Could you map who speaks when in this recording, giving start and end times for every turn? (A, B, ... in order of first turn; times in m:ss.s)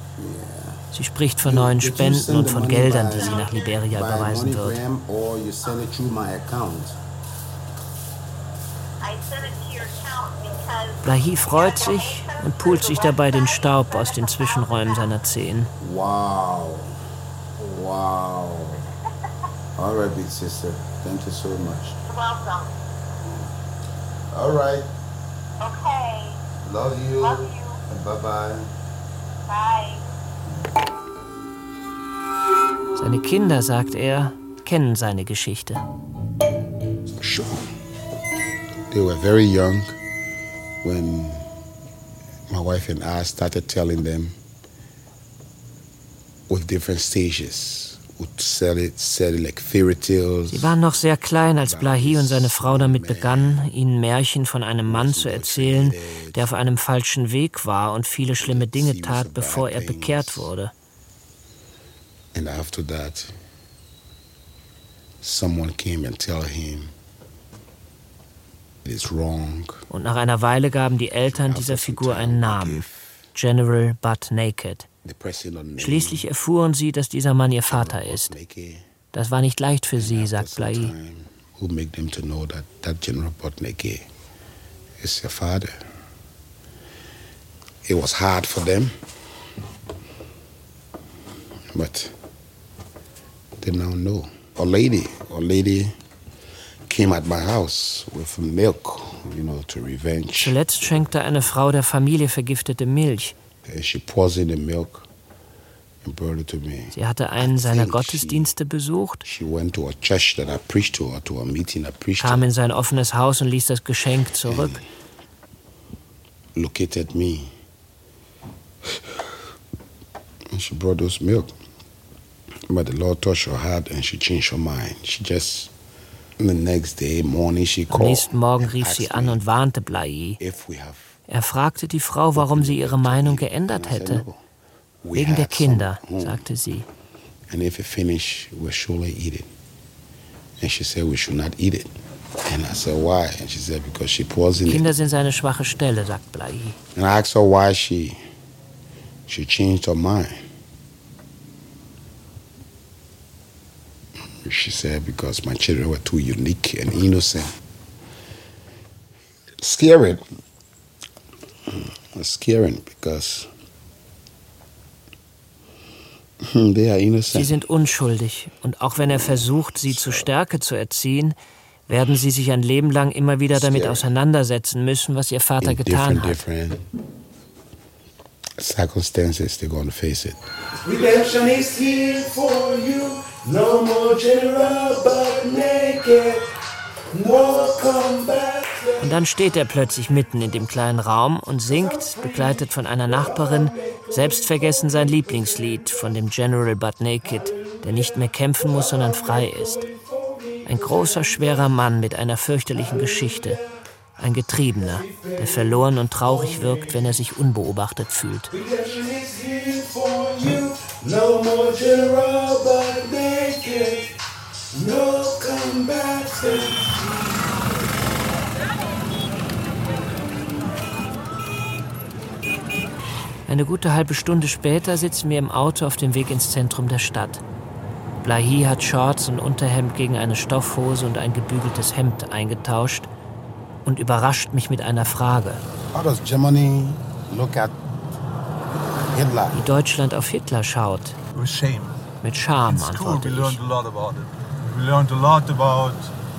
0:00.2-0:00.8 A
0:00.9-0:04.8 B
0:01.4-0:07.0 A
0:03.2-0:03.8 C
0:09.0-0:15.1 C
0:11.0-0:15.7 B
0:15.8-0:16.9 A
0:17.6-0:18.8 A
0:19.8-0:22.0 A
0:22.1-0:22.7 C
0:23.2-0:23.5 A
0:24.3-0:24.9 A
0:25.6-0:26.4 C
0:26.6-0:28.7 A
0:27.2-0:27.8 C
0:29.5-0:30.0 C
0:33.0-0:35.8 B
0:37.2-0:37.7 A
0:38.9-0:40.0 A
0:40.8-0:41.4 A
0:42.5-0:44.4 A
0:46.5-0:50.8 A
0:50.5-1:00.7 B
0:51.6-0:53.7 A
0:54.8-0:56.6 A
0:58.4-1:00.5 A
1:02.3-1:03.3 A
1:05.2-1:06.9 A
1:08.8-1:09.8 A
1:09.9-1:14.9 B
1:11.3-1:13.2 A
1:15.0-1:16.3 A
1:15.8-1:18.4 B
1:17.6-1:18.8 A
1:19.1-1:20.9 B
1:20.0-1:24.1 A
1:25.0-1:25.8 A
1:27.8-1:29.0 A
1:31.7-1:32.1 A
1:33.6-1:36.0 A
1:36.9-1:40.6 A
1:40.3-1:43.3 B
1:43.6-1:45.0 A
1:46.0-1:48.5 A
1:46.9-1:49.2 B
1:49.2-1:52.4 A
1:52.2-1:54.8 B
1:54.4-1:54.8 A
1:56.6-1:57.5 A
2:00.5-2:01.6 A
2:02.7-2:05.7 A
2:06.4-2:09.4 A
2:07.9-2:10.4 B
2:10.4-2:11.2 A
2:11.3-2:14.2 B
2:12.3-2:14.4 A
2:15.0-2:16.4 A
2:15.1-2:16.9 B
2:17.5-2:19.5 A
2:20.6-2:24.9 A
2:24.6-2:26.8 B
2:26.9-2:28.2 A
2:29.3-2:30.4 A
2:34.4-2:37.6 A
2:39.6-2:40.2 A
2:41.7-2:43.5 A
2:46.4-2:47.6 A
2:47.3-2:51.4 B
2:49.0-2:50.3 A
2:51.9-2:56.4 B
2:53.5-2:54.1 A
2:55.6-2:56.8 A
2:58.6-3:00.4 A
3:00.8-3:06.5 D
3:07.1-3:09.1 D
3:09.0-3:19.8 B
3:11.6-3:15.8 D
3:17.2-3:21.7 D
3:20.6-3:23.6 B
3:22.7-3:23.7 D
3:24.2-3:28.5 B
3:24.8-3:27.1 D
3:28.5-3:34.1 D
3:34.7-3:37.6 D
3:43.5-3:47.4 B
3:48.2-3:53.1 B
3:53.8-3:55.6 B
3:55.9-3:57.8 A
3:59.1-3:59.6 A
3:59.5-4:01.2 B
4:01.4-4:02.0 E
4:02.2-4:03.6 B
4:02.6-4:06.1 E